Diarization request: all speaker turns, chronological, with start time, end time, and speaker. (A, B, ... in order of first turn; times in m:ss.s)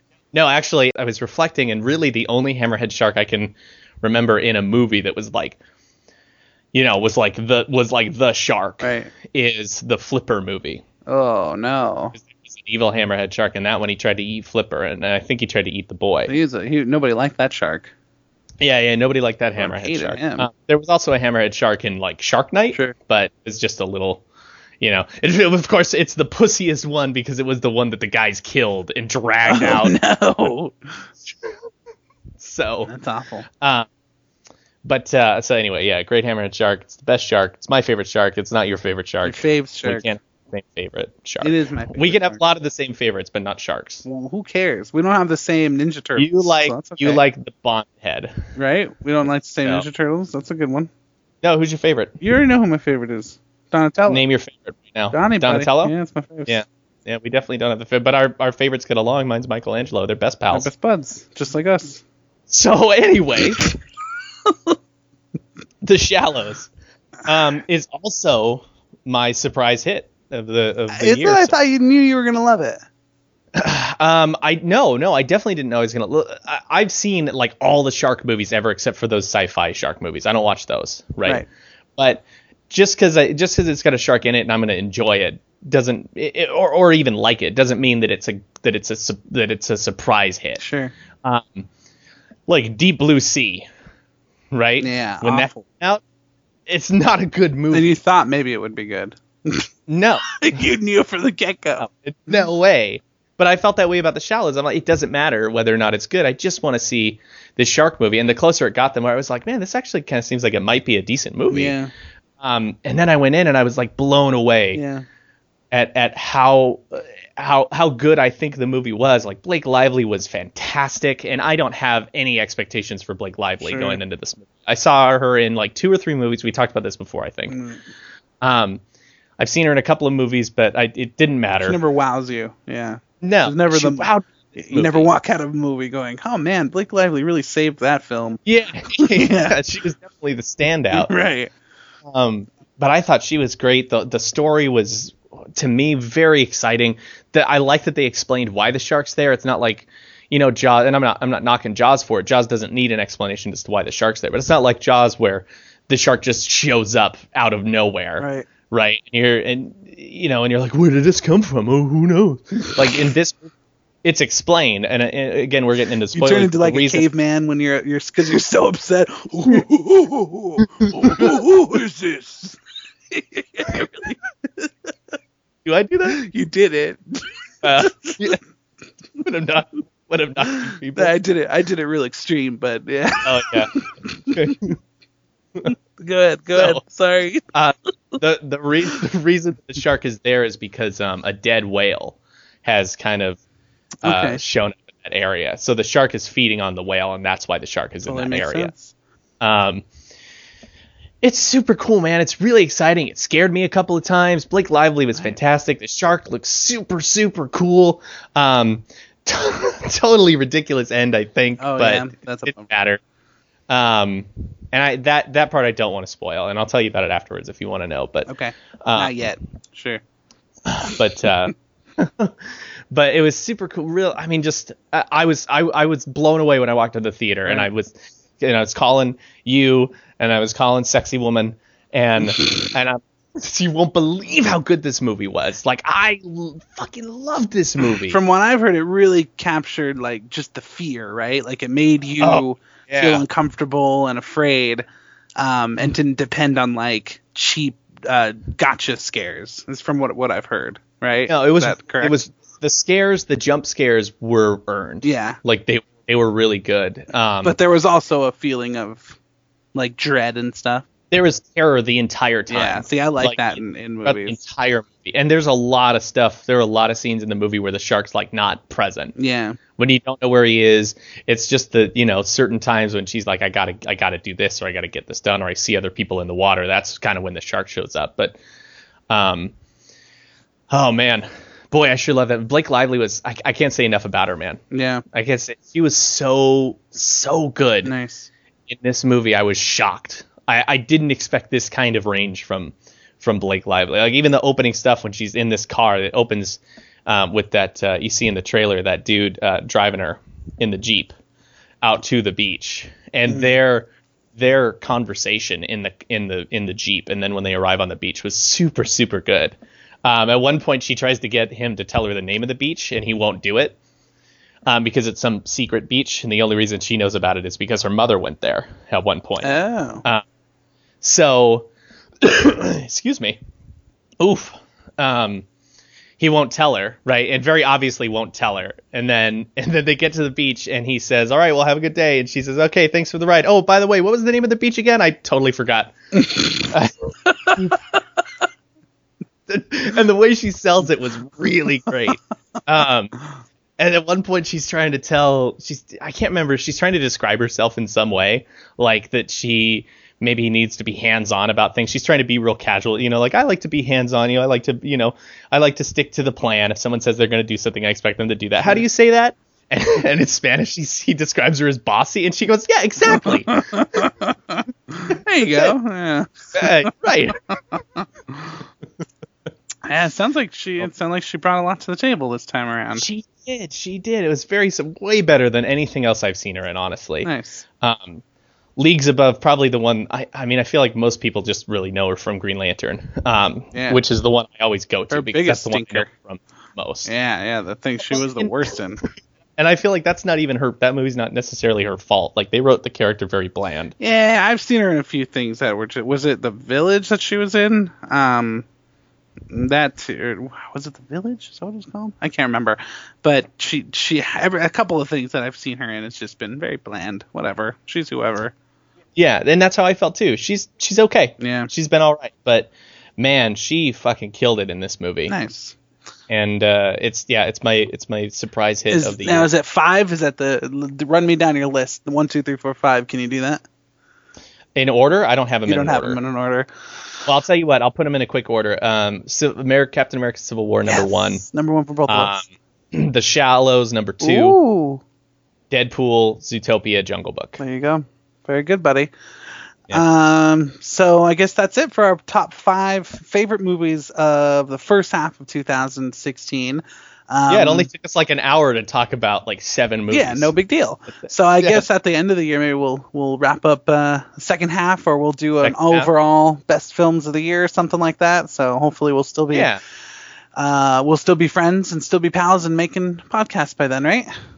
0:00.3-0:05.6 A
0:06.7-0:10.8 A
0:08.8-0:09.1 B
0:11.0-0:12.1 B
0:12.2-0:16.3 A
0:16.3-0:17.9 B
0:18.6-0:24.2 A
0:19.6-0:20.5 B
0:24.8-0:30.0 A
0:29.4-0:30.9 B
0:32.4-0:32.9 A
0:32.9-0:33.4 B
0:33.6-0:33.9 A
0:34.8-0:44.0 A
0:39.2-0:40.1 B
0:41.4-0:42.4 B
0:44.0-0:47.2 B
0:46.2-0:48.4 A
0:48.6-0:50.9 B
0:51.4-0:52.2 A
0:52.2-0:54.2 B
0:54.1-0:55.9 A
0:55.1-0:56.6 B
0:56.5-1:00.7 A
1:00.5-1:02.0 B
1:02.5-1:03.7 A
1:04.4-1:04.8 B
1:05.8-1:06.7 A
1:07.2-1:11.6 A
1:10.9-1:12.8 B
1:13.6-1:21.4 A
1:22.0-1:30.6 A
1:30.6-1:30.9 B
1:31.2-1:31.7 A
1:32.5-1:33.6 A
1:34.5-1:36.0 A
1:34.8-1:35.6 B
1:36.7-1:37.9 A
1:37.7-1:39.7 B
1:39.9-1:40.3 A
1:40.3-1:41.9 B
1:41.8-1:51.8 A
1:51.5-1:51.9 B
1:52.4-1:54.8 A
1:54.7-1:55.0 B
1:55.7-2:07.6 A
2:03.6-2:04.0 B
2:07.5-2:07.8 B
2:08.4-2:08.8 A
2:09.4-2:11.8 A
2:11.6-2:18.4 B
2:13.2-2:15.1 A
2:18.4-2:21.1 A
2:19.0-2:19.5 B
2:20.9-2:21.5 B
2:22.1-2:43.5 A
2:38.2-2:38.5 B
2:44.0-2:47.0 A
2:46.1-2:52.6 B
2:50.8-2:51.3 A
2:53.1-2:54.9 B
2:55.6-2:56.2 A
2:56.1-2:58.3 B
2:57.6-2:58.4 A
2:59.2-3:01.2 A
3:00.9-3:04.5 B
3:03.2-3:03.7 A
3:04.3-3:04.8 A
3:05.6-3:07.4 B
3:06.5-3:06.8 A
3:07.5-3:13.4 A
3:14.0-3:14.4 B
3:14.0-3:18.7 A
3:18.0-3:18.9 B
3:19.4-3:19.8 A
3:21.2-3:33.0 A
3:31.6-3:32.7 B
3:33.7-3:38.3 A
3:38.3-3:40.0 B
3:38.8-3:39.2 A
3:40.6-3:58.2 A
3:58.0-4:04.8 B
4:02.2-4:03.2 A
4:05.4-4:12.1 B
4:11.3-4:17.6 A
4:15.0-4:15.4 B
4:17.4-4:19.2 B
4:19.7-4:20.8 B
4:21.1-4:29.1 A
4:22.5-4:24.4 B
4:29.2-4:29.6 B
4:29.8-4:38.4 A
4:39.1-4:39.5 A
4:40.7-4:47.9 A
4:44.7-4:45.0 B
4:47.8-4:48.3 B
4:48.7-5:01.1 A
5:01.8-5:13.8 A
5:14.6-5:20.2 A
5:19.4-5:20.0 B
5:21.0-5:21.7 A
5:22.2-5:23.4 A
5:24.2-5:25.4 A
5:26.2-5:37.8 A
5:37.3-5:37.6 B
5:39.5-5:43.2 A
5:43.8-6:03.6 A
6:03.1-6:06.9 B
6:05.4-6:05.7 A
6:06.5-6:07.4 A
6:07.5-6:08.6 B
6:09.8-6:13.0 B
6:12.9-6:18.2 A
6:17.2-6:17.6 B
6:18.8-6:27.1 A
6:23.7-6:24.0 B
6:25.1-6:26.1 B
6:27.0-6:29.0 B
6:28.1-6:28.5 A
6:29.6-6:33.9 A
6:34.0-6:38.6 B
6:39.5-6:48.5 B
6:49.2-6:55.3 A
6:51.4-6:51.7 B
6:55.3-6:55.8 B
6:56.3-6:59.5 A
6:58.9-7:03.6 B
7:04.7-7:06.2 A
7:05.6-7:06.7 B
7:07.2-7:11.4 A
7:10.8-7:12.4 B
7:12.1-7:14.6 A
7:14.2-7:15.0 B
7:15.7-7:17.6 A
7:17.6-7:19.1 B
7:19.9-7:27.9 B
7:27.5-7:30.5 A
7:30.1-7:39.7 B
7:31.2-7:31.8 A
7:35.6-7:36.1 A
7:39.5-7:39.8 A
7:40.6-7:44.3 B